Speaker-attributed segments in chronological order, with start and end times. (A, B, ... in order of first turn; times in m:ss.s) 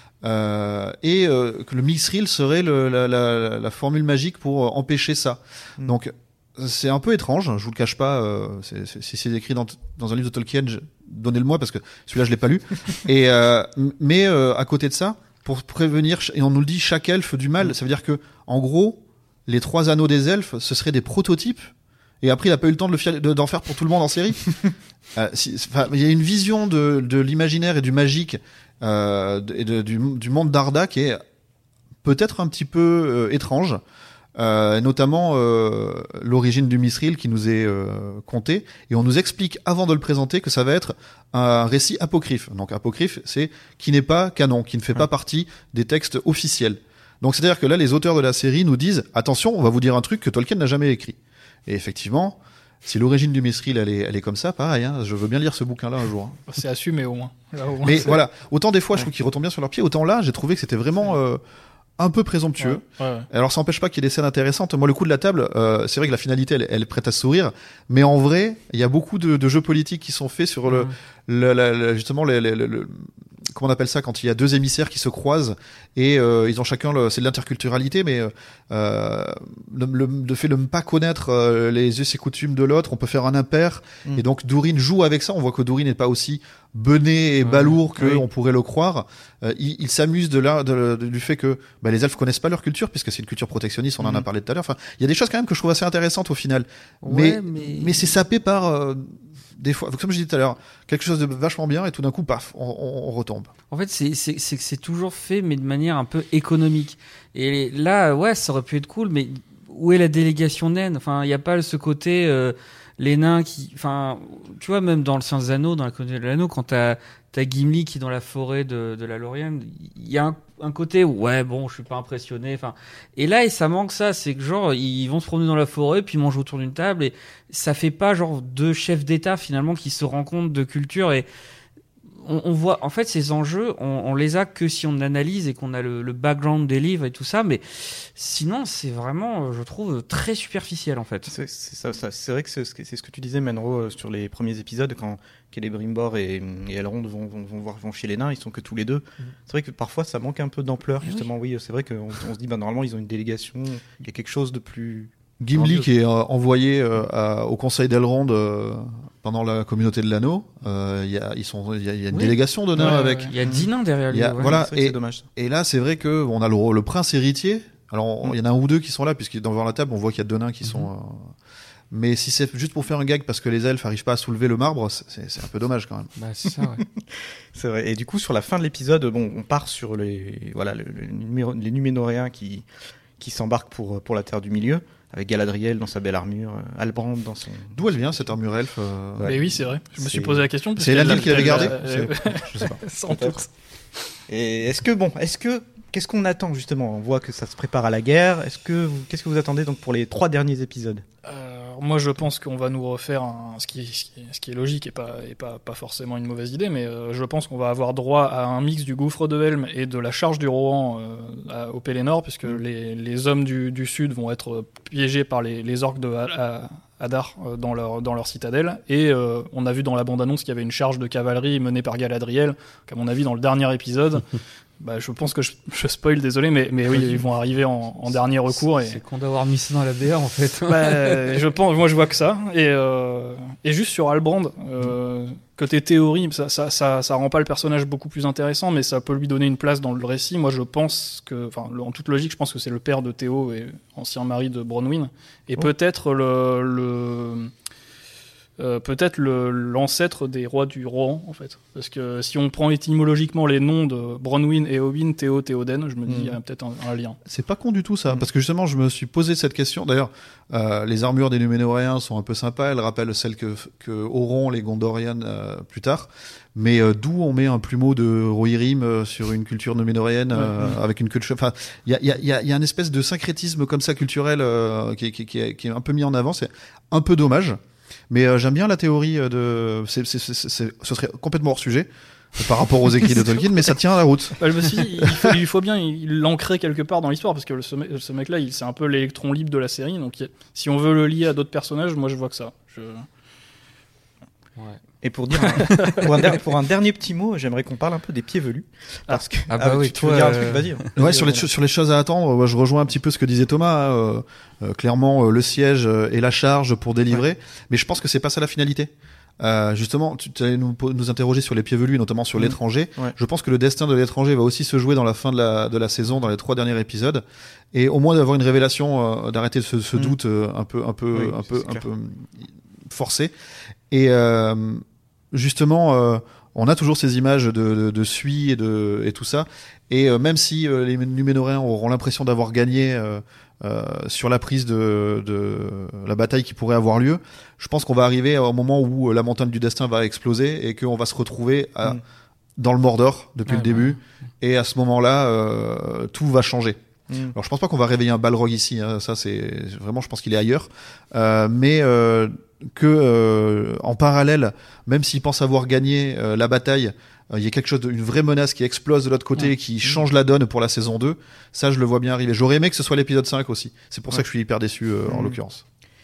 0:00.2-0:21.7 A
0:22.2-0:24.6 A
0:25.1-0:31.2 A
0:32.0-0:33.8 A
0:34.4-0:56.4 A
0:56.5-0:58.2 B
0:57.8-1:01.4 A
1:02.0-1:43.5 A
1:02.6-1:03.3 B
1:37.0-1:38.1 C
1:43.7-2:11.3 C
2:12.2-2:21.3 C
2:21.3-2:35.9 D
2:35.4-2:43.4 A
2:42.1-2:44.6 C
2:42.8-2:43.3 B
2:43.4-2:43.7 D
2:44.1-2:51.3 A
2:44.4-2:45.3 D
2:51.9-2:56.1 A
2:56.2-2:56.8 C
2:56.8-3:02.6 D
3:03.2-3:08.3 D
3:07.8-3:09.4 A
3:09.2-3:10.5 D
3:09.3-3:13.5 B
3:10.8-3:12.8 A
3:11.0-3:11.6 D
3:13.1-3:13.4 D
3:14.3-3:21.0 D
3:21.2-3:44.2 B
3:44.8-3:49.0 B
3:46.9-3:47.2 C
3:48.5-3:51.4 C
3:50.7-4:07.5 B
4:08.6-4:17.2 B
4:16.1-4:16.4 D
4:17.2-4:44.5 A
4:44.4-4:53.1 B
4:45.0-4:45.3 A
4:55.0-5:01.4 D
4:55.4-4:56.1 B
4:59.5-5:00.9 C
5:01.0-5:23.3 A
5:12.4-5:13.2 D
5:21.1-5:21.9 D
5:23.9-5:42.0 A
5:42.6-5:46.8 A
5:43.5-5:44.0 C
5:47.1-5:47.4 D
5:47.3-6:05.6 A
6:05.1-6:05.4 D